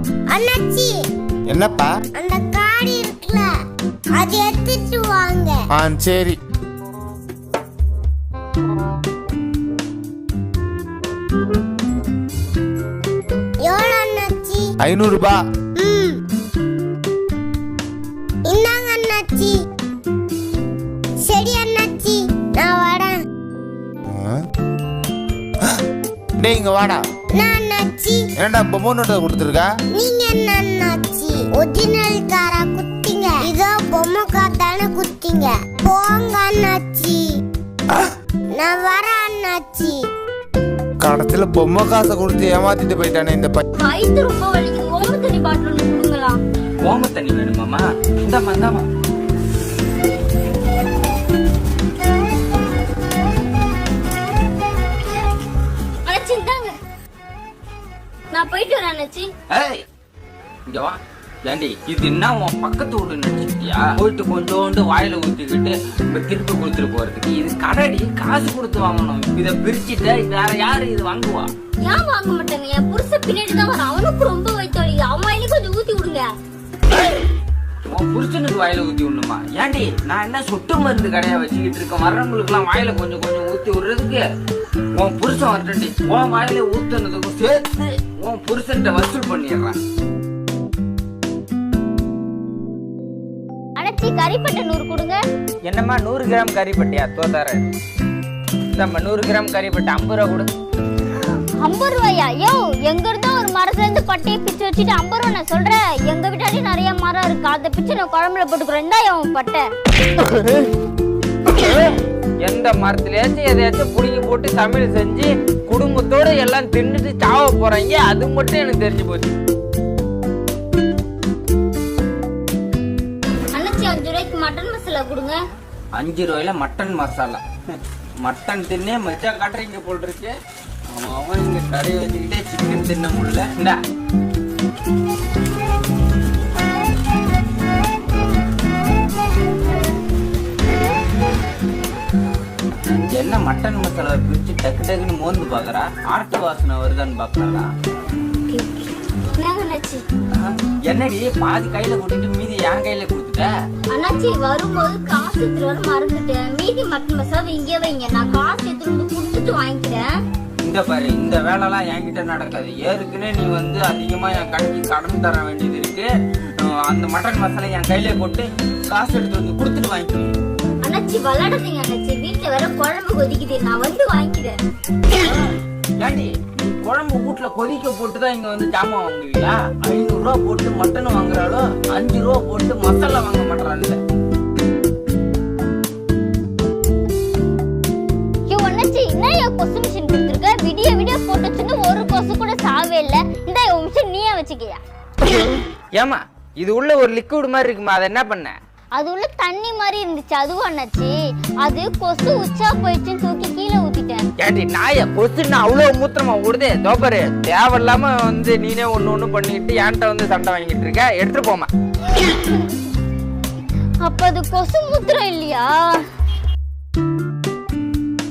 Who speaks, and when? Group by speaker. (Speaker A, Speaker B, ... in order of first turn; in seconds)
Speaker A: 0.3-0.9, 2.2-3.5, 4.2-5.5, 13.7-14.6, 15.8-16.1, 18.5-19.5, 21.2-23.1, 27.4-28.2, 30.0-37.1, 38.6-39.9
Speaker B: 1.5-1.9, 5.7-6.4, 14.8-15.4, 26.4-27.0, 28.4-29.7, 41.0-43.6
Speaker C: 43.8-46.4, 56.0-56.8, 58.3-59.3, 71.8-76.3, 93.8-95.2, 101.6-109.7, 123.5-125.4, 148.5-150.0, 153.9-160.1, 170.8-174.5, 188.5-194.8, 198.9-204.2, 212.3-212.7, 214.0-216.0
Speaker D: 46.8-48.9, 59.5-59.8, 60.7-71.5, 77.9-84.2, 85.0-89.7, 95.7-97.7, 98.8-100.5, 112.4-119.3, 125.9-127.4, 128.2-130.3, 130.9-133.8, 142.9-147.7, 150.3-153.5, 160.6-166.1, 166.6-170.3, 176.0-184.0, 196.0-198.6, 204.4-211.7